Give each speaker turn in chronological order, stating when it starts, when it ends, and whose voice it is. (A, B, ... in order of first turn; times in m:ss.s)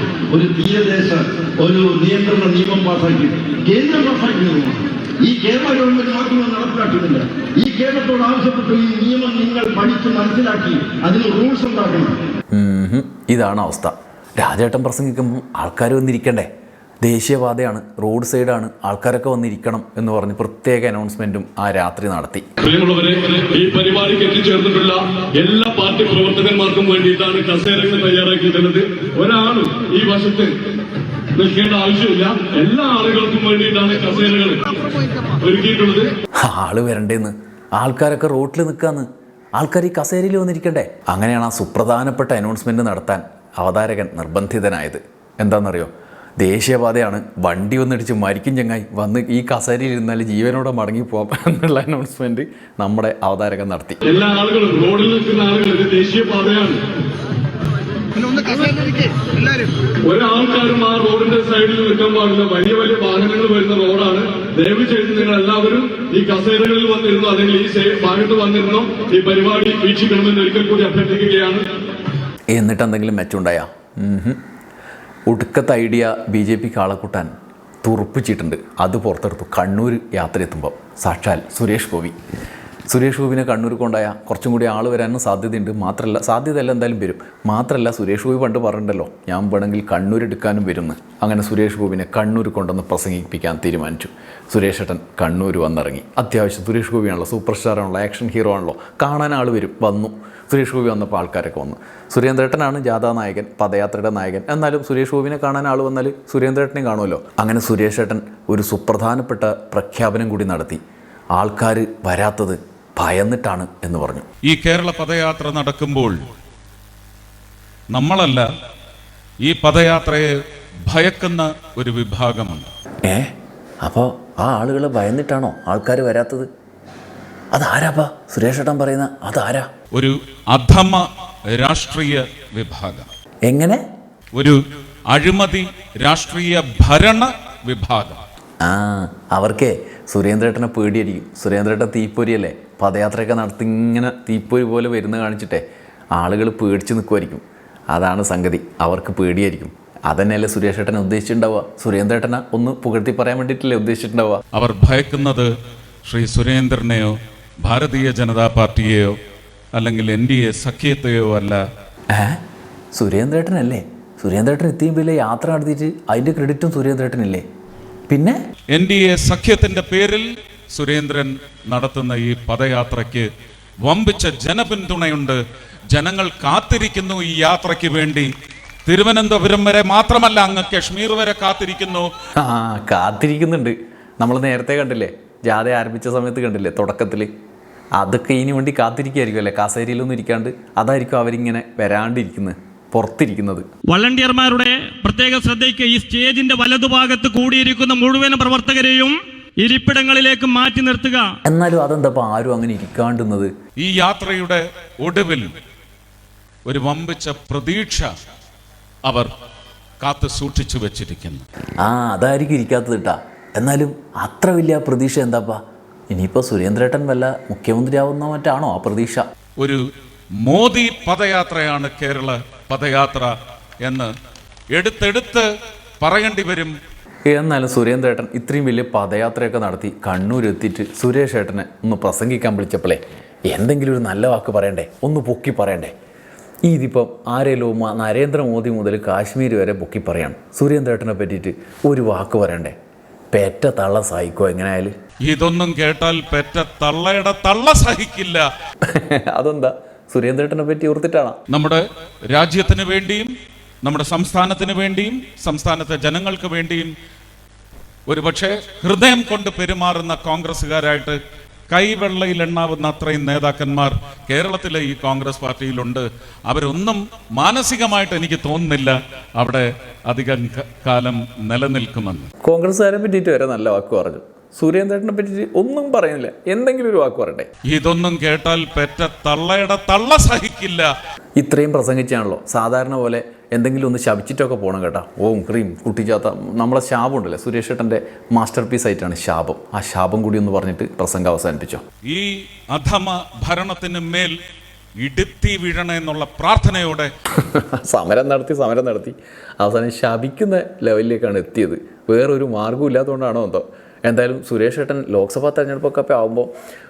0:00.3-0:12.2 A
0:12.5-0:16.5 B
0:17.0-0:22.4 B
0:22.6-0:30.5 C
0:31.3-0:34.8 C
0:34.8-0:35.3 A
0:35.3-0:36.1 C
0:36.4-0:54.0 B
0:54.0-0:56.8 C
0:58.2-0:59.7 A
1:00.0-1:11.6 C
1:12.5-1:14.4 B
1:15.3-1:17.3 B
1:17.8-1:22.2 B
1:22.9-1:50.8 B
1:51.3-1:54.2 B
1:54.4-1:56.2 D
1:57.9-1:58.4 D
1:59.4-2:00.3 D
2:00.9-2:02.7 D
2:03.0-2:06.5 B
2:07.5-2:09.7 B
2:09.9-2:13.1 D
2:13.5-2:13.8 B
2:15.1-2:18.2 D
2:18.6-2:25.6 B
2:26.1-2:34.4 B
2:34.5-2:35.5 D
2:36.0-2:39.1 D
2:39.7-2:41.6 D
2:42.1-2:42.4 B
2:42.9-2:47.4 B
2:48.1-2:48.4 B
2:48.7-2:53.3 D
2:53.8-2:55.4 D
2:55.9-2:58.3 D
2:58.8-3:02.1 D
3:02.4-3:07.3 B
3:08.0-3:13.7 B
3:13.9-3:21.3 E
3:21.4-3:23.5 B
3:23.8-3:25.5 D
3:26.6-3:28.1 D
3:30.0-3:31.4 D
3:31.8-3:39.2 B
3:40.4-3:43.3 D
3:43.8-3:44.1 D
3:44.7-3:45.4 D
3:46.0-3:46.7 D
3:47.3-3:55.9 B
3:56.6-4:02.7 B
4:03.3-4:04.9 B
4:05.2-4:08.4 D
4:08.8-4:11.4 B
4:11.5-4:13.3 D
4:13.8-4:16.9 D
4:18.1-4:21.2 D
4:21.7-4:32.3 D
4:32.4-4:37.5 B
4:37.7-4:40.9 D
4:41.4-4:51.8 B
4:52.0-4:54.3 D
4:55.0-4:57.1 D
4:57.3-5:06.5 B